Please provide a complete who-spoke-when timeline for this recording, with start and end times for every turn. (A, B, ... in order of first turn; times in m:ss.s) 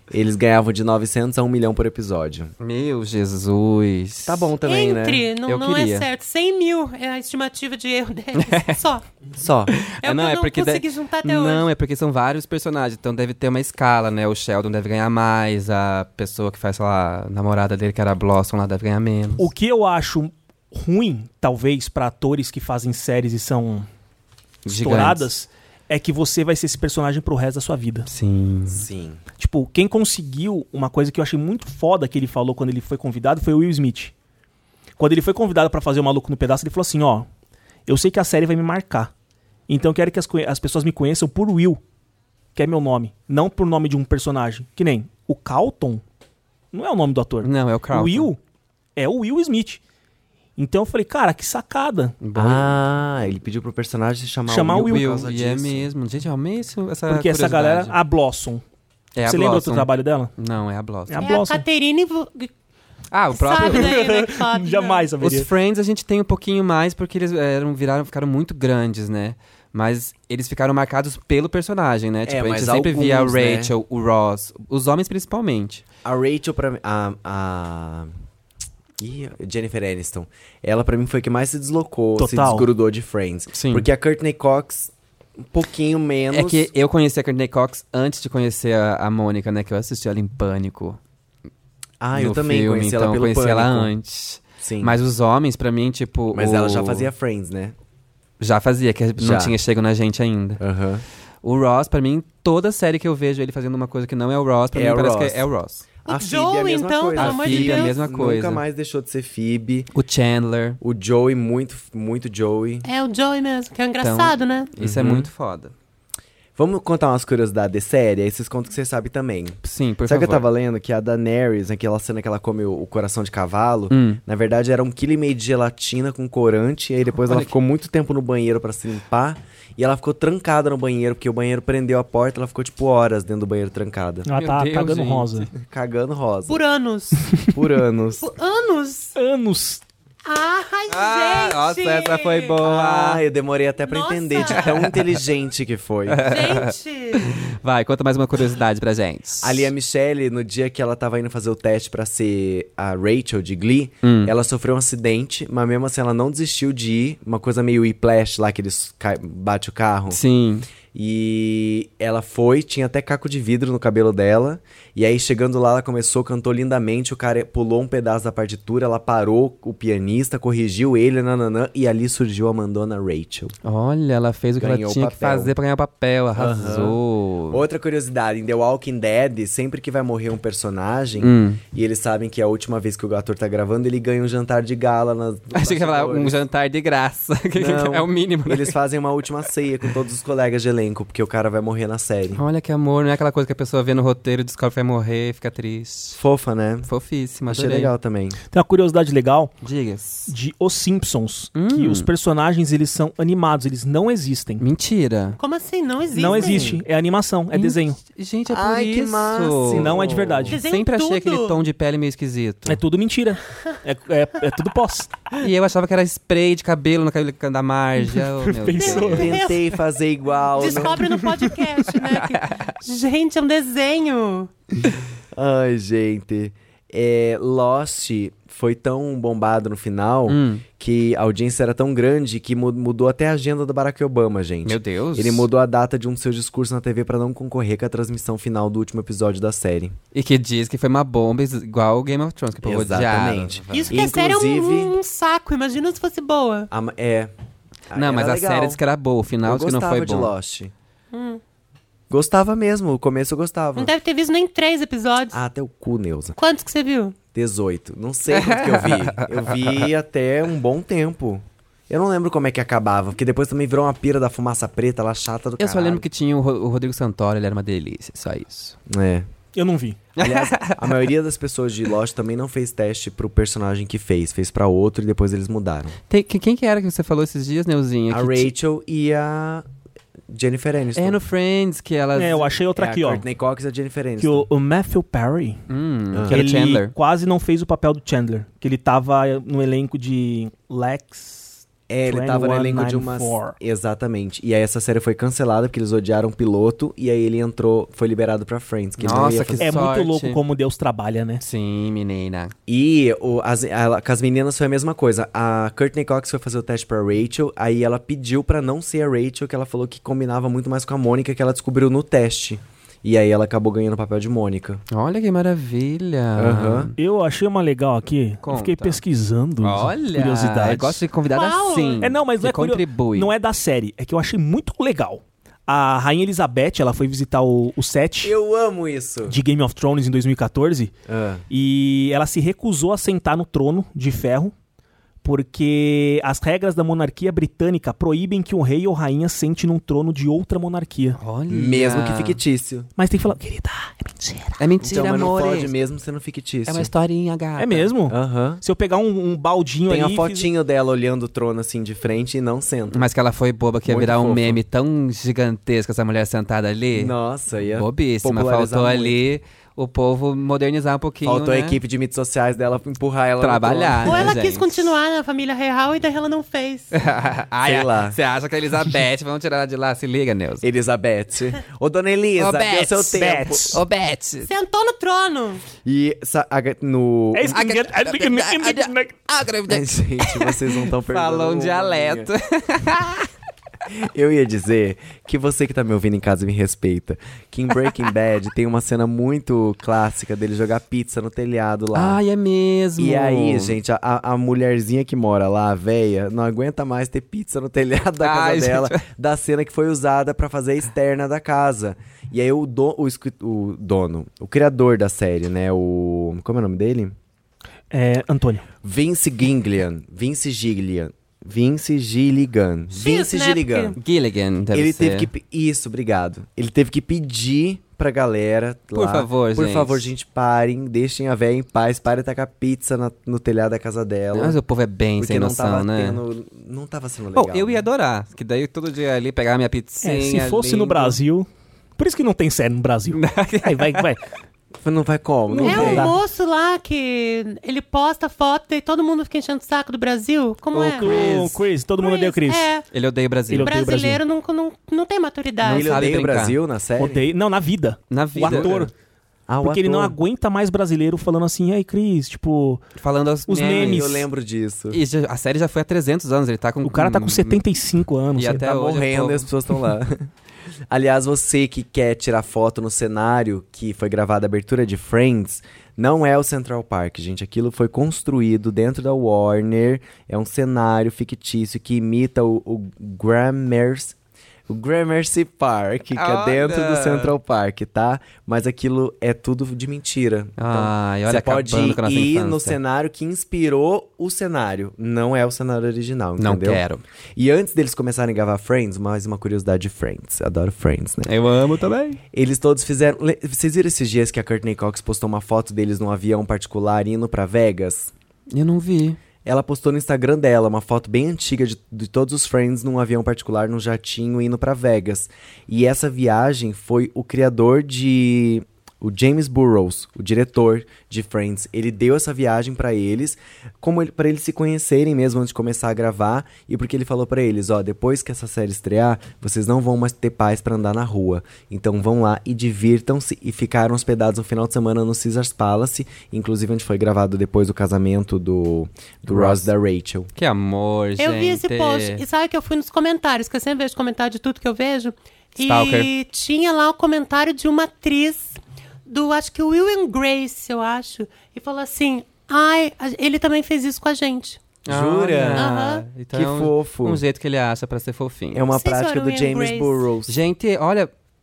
0:00.1-0:02.5 A
0:02.6-0:04.5 B
0:04.2-0:05.3 A
0:04.6-0:09.0 C
0:05.4-0:06.1 B
0:08.4-0:08.8 B
0:09.4-0:09.8 A
0:09.7-0:19.5 B
0:10.0-0:11.7 C
0:19.4-0:23.9 D
0:24.6-0:25.3 B
0:24.7-0:28.1 D
0:28.1-0:28.9 B
0:28.7-0:29.2 A
0:29.4-0:34.1 D
0:35.0-0:37.3 D
0:37.9-0:39.1 D
0:39.7-0:41.8 D
0:42.6-0:46.0 D
0:46.7-0:48.4 D
0:47.4-0:48.3 B
0:49.0-0:49.8 D
0:50.6-0:52.2 D
0:52.2-0:52.8 B
0:52.4-0:55.9 A
0:54.5-0:55.1 D
0:54.8-0:58.0 B
0:57.1-0:58.6 D
0:59.2-1:01.3 B
0:59.2-1:00.3 D
1:01.1-1:01.6 D
1:01.2-1:02.5 C
1:03.1-1:04.0 B
1:03.3-1:05.1 C
1:03.6-1:05.5 D
1:05.2-1:15.8 B
1:12.3-1:13.7 A
1:16.0-1:18.1 A
1:19.0-1:24.9 A
1:22.2-1:22.7 D
1:23.5-1:23.9 B
1:25.5-1:26.7 A
1:26.3-1:31.0 B
1:32.0-1:33.9 A
1:32.2-1:37.1 B
1:34.6-1:35.0 A
1:36.3-1:37.8 A
1:38.4-1:40.6 B
1:39.2-1:39.6 A
1:40.6-1:41.0 A
1:41.4-1:45.9 B
1:44.7-1:45.5 A
1:46.0-1:49.9 A
1:46.1-1:48.0 C
1:47.2-1:48.6 B
1:49.9-1:50.8 B
1:50.8-1:52.9 A
1:52.8-1:54.7 C
1:54.0-1:55.7 B
1:54.8-1:55.3 A
1:56.6-2:14.3 A
1:59.6-2:00.4 B
2:03.9-2:04.2 B
2:07.2-2:07.5 B
2:14.3-2:15.5 D
2:14.4-2:15.5 B
2:15.6-2:16.6 A
2:16.5-2:17.2 C
2:17.5-2:18.2 A
2:18.2-2:19.2 C
2:19.2-2:19.8 D
2:20.2-2:22.6 C
2:20.9-2:23.2 B
2:22.6-2:26.3 A
2:23.8-2:24.7 C
2:24.6-2:25.0 B
2:26.1-2:29.7 B
2:26.2-2:27.4 C
2:29.4-2:40.2 A
2:34.0-2:34.3 B
2:40.1-2:40.7 B
2:40.9-2:53.5 A
2:53.6-2:57.6 B
2:54.6-2:55.5 A
2:56.4-2:57.0 A
2:57.5-3:06.4 A
3:01.2-3:01.6 B
3:05.5-3:08.8 B
3:07.6-3:12.4 A
3:12.3-3:16.2 B
3:16.2-3:16.9 A
3:16.9-3:17.9 B
3:17.5-3:18.4 A
3:18.5-3:19.6 D
3:19.6-3:20.3 B
3:20.3-3:24.6 D
3:21.6-3:22.1 B
3:24.6-3:25.4 B
3:25.4-3:26.8 C
3:26.1-3:28.0 D
3:26.3-3:26.8 B
3:27.5-3:32.8 B
3:28.5-3:30.6 A
3:29.7-3:30.6 D
3:30.5-3:31.6 C
3:32.7-3:35.2 D
3:35.3-3:39.4 B
3:38.1-3:39.4 D
3:38.7-3:39.6 C
3:39.0-3:41.0 A
3:40.6-3:44.5 C
3:42.0-3:42.7 B
3:45.3-4:00.0 A
3:50.3-3:50.7 B
3:54.6-3:55.5 B
4:00.1-4:04.0 B
4:02.6-4:05.0 A
4:03.7-4:06.7 C
4:06.7-4:07.3 A
4:07.9-4:08.8 A
4:07.9-4:10.3 B
4:09.4-4:10.7 A
4:11.1-4:11.4 C
4:12.1-4:13.9 A
4:13.8-4:15.4 C
4:15.3-4:16.4 A
4:16.4-4:17.2 C
4:17.3-4:26.0 A
4:18.3-4:19.8 B
4:25.6-4:28.8 B
4:28.9-4:29.3 A
4:29.6-4:30.0 D
4:30.2-4:31.0 B
4:30.2-4:36.0 A
4:36.1-4:38.5 B
4:38.1-4:39.6 A
4:40.3-4:41.2 A
4:41.0-4:42.6 B
4:42.2-4:43.2 D
4:42.8-4:44.5 A
4:44.2-4:45.6 D
4:45.7-4:46.9 B
4:46.1-4:46.4 A
4:46.3-4:53.6 D
4:51.9-4:59.7 A
4:59.0-5:00.4 B
4:59.6-5:01.4 D
5:01.4-5:02.5 B
5:02.7-5:14.8 A
5:14.9-5:16.9 B
5:16.4-5:16.9 A
5:17.0-5:21.0 D
5:18.4-5:19.0 B
5:19.6-5:23.3 B
5:21.3-5:22.0 C
5:22.0-5:28.4 D
5:28.2-5:29.4 A
5:29.3-5:30.9 D
5:31.1-5:31.4 A
5:31.5-5:34.5 D
5:35.2-5:41.2 D
5:41.2-5:42.4 B
5:41.5-5:42.9 A
5:43.0-5:44.6 D
5:44.6-5:45.7 B
5:44.8-5:46.9 A
5:46.7-5:47.9 B
5:47.6-5:50.5 D
5:48.1-5:48.6 A
5:49.9-5:53.1 A
5:52.9-5:57.1 B
5:53.8-5:54.6 A
5:56.9-5:59.2 A
5:57.7-6:01.8 B
6:01.2-6:04.4 A
6:03.4-6:04.9 B
6:04.0-6:06.9 C
6:06.9-6:10.6 B
6:07.6-6:08.2 A
6:10.6-6:13.8 A
6:12.4-6:14.5 B
6:13.2-6:13.8 D
6:14.4-6:15.6 C
6:15.8-6:17.6 A
6:17.3-6:19.2 D
6:17.5-6:23.3 B
6:19.7-6:22.3 A
6:23.9-6:32.2 A
6:32.0-6:33.8 B
6:33.0-6:47.2 A
6:38.2-6:39.0 B
6:47.9-6:48.7 D
6:48.8-6:54.0 A
6:52.9-6:54.0 C
6:54.0-6:55.3 B
6:54.7-7:04.6 A
6:58.9-7:00.1 B
7:04.3-7:06.2 B
7:05.2-7:07.9 A
7:07.3-7:11.2 B
7:10.0-7:11.5 D
7:12.0-7:14.2 D
7:13.1-7:14.1 B
7:14.8-7:16.2 A
7:15.5-7:16.2 D
7:15.6-7:21.1 C
7:20.7-7:21.6 B
7:21.0-7:22.7 D
7:22.0-7:22.9 C
7:22.9-7:23.7 B
7:23.5-7:24.2 D
7:23.6-7:26.1 C
7:25.6-7:27.2 A
7:25.6-7:26.6 B
7:27.0-7:28.9 D
7:28.1-7:28.9 B
7:28.4-7:28.8 A
7:29.5-7:30.2 A
7:29.6-7:32.8 D
7:33.0-7:34.2 B
7:33.5-7:34.3 D
7:33.6-7:35.0 A
7:34.9-7:37.6 B
7:36.8-7:38.8 D
7:38.4-7:39.5 B
7:38.6-7:40.3 A
7:40.9-7:54.2 A
7:54.7-8:06.8 A
7:56.2-7:57.3 B
8:00.6-8:02.8 B
8:06.4-8:07.0 B
8:07.4-8:11.3 A
8:11.2-8:12.2 B
8:12.3-8:18.1 A
8:18.5-8:19.2 B
8:19.4-8:50.3 A
8:49.3-8:49.7 B
8:50.4-8:52.2 B
8:51.2-8:58.6 C
8:55.6-8:56.1 B
8:59.1-9:04.6 C
9:04.9-9:08.7 B
9:04.9-9:05.7 A
9:05.6-9:06.1 C
9:06.3-9:07.2 A
9:08.5-9:10.4 A
9:08.7-9:10.0 C
9:10.3-9:11.1 B